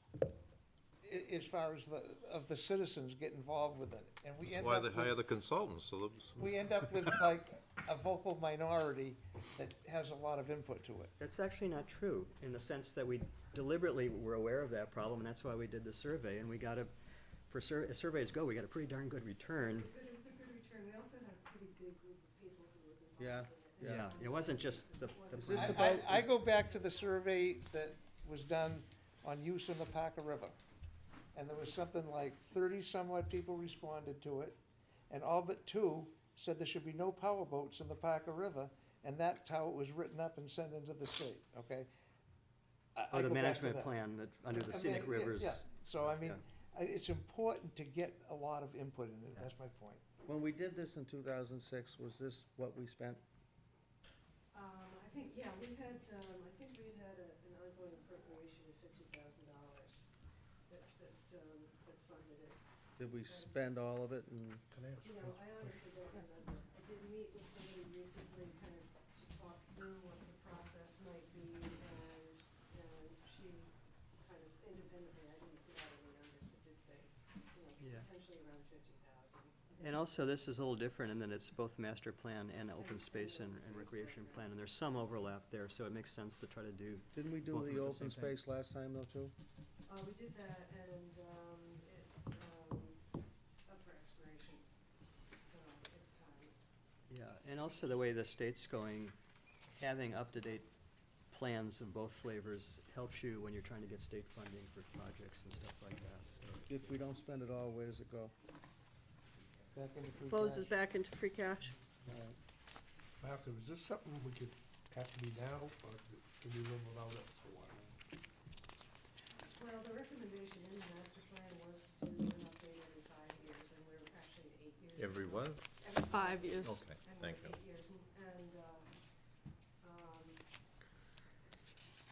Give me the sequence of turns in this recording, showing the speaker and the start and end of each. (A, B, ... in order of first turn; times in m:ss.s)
0:01.0-0:05.2 A
0:04.5-0:06.4 B
0:06.4-0:11.1 A
0:11.2-0:16.9 C
0:17.5-0:19.9 C
0:19.7-0:25.9 D
0:23.2-0:24.1 E
0:23.8-0:26.2 C
0:25.3-0:26.3 E
0:25.5-0:30.6 A
0:31.4-0:34.6 A
0:35.1-0:41.9 A
0:43.0-0:43.9 A
0:43.1-0:46.4 C
0:44.5-0:50.0 A
0:50.2-0:53.2 E
0:54.5-1:00.1 D
1:00.7-1:02.6 D
1:03.0-1:04.7 E
1:03.2-1:03.5 D
1:04.7-1:05.9 F
1:05.0-1:19.7 D
1:17.8-1:18.1 C
1:19.8-1:28.4 C
1:22.8-1:24.5 D
1:27.1-1:29.3 E
1:29.9-1:33.0 D
1:33.7-1:34.7 D
1:35.4-1:36.6 D
1:37.1-1:39.2 C
1:39.8-1:40.7 C
1:41.3-1:47.0 C
1:46.7-1:48.3 E
1:49.7-1:50.7 A
1:50.3-1:51.7 G
1:52.0-1:52.4 E
1:53.2-1:57.9 F
1:59.5-2:09.0 D
2:05.0-2:05.6 B
2:05.9-2:06.8 G
2:06.6-2:07.6 B
2:09.8-2:10.4 D